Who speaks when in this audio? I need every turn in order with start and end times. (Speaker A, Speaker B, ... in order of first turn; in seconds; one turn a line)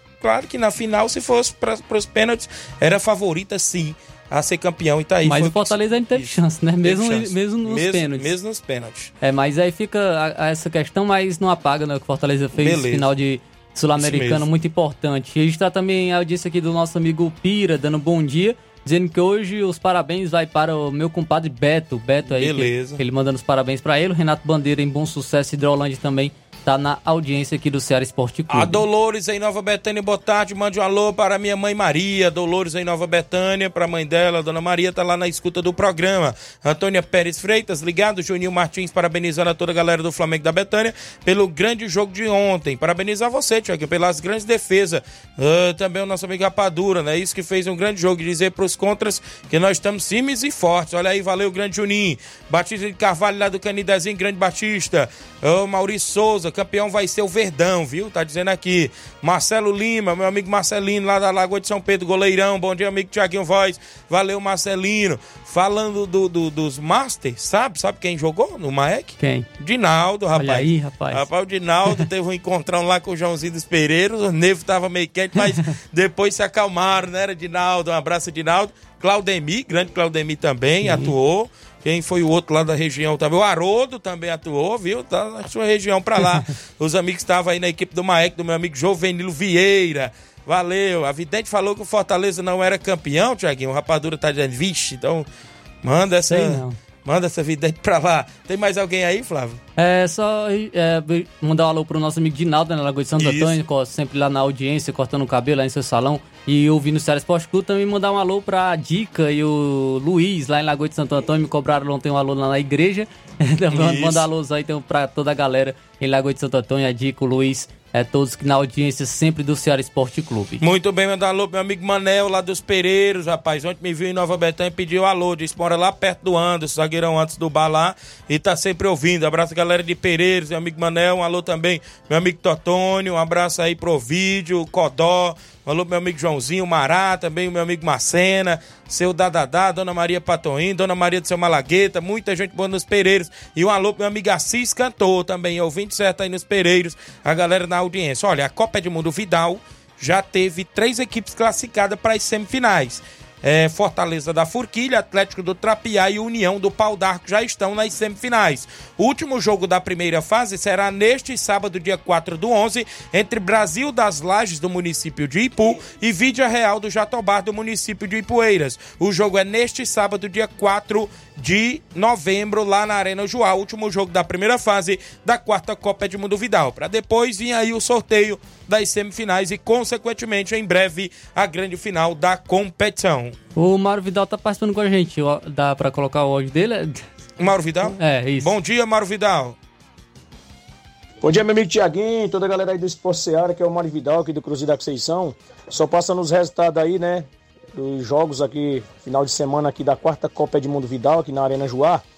Speaker A: 0.2-9.1
Speaker B: 5.2-8.3
Speaker B: 9.2-28.8
Speaker A: 12.6-13.1
Speaker A: 14.0-14.4
Speaker A: 22.3-23.0
Speaker A: 28.5-95.3
Speaker B: 69.2-69.5
Speaker B: 70.3-71.2
Speaker B: 80.8-81.1
Speaker A: 95.8-99.6
Speaker B: 96.3-96.8
Speaker B: 99.8-120.6
Speaker A: 103.2-103.6
Speaker A: 113.7-114.3
Speaker A: 120.6-183.4
Speaker B: 183.6-187.1
Speaker A: 187.4-189.6
Speaker B: 187.8-188.5
Speaker C: 191.2-202.0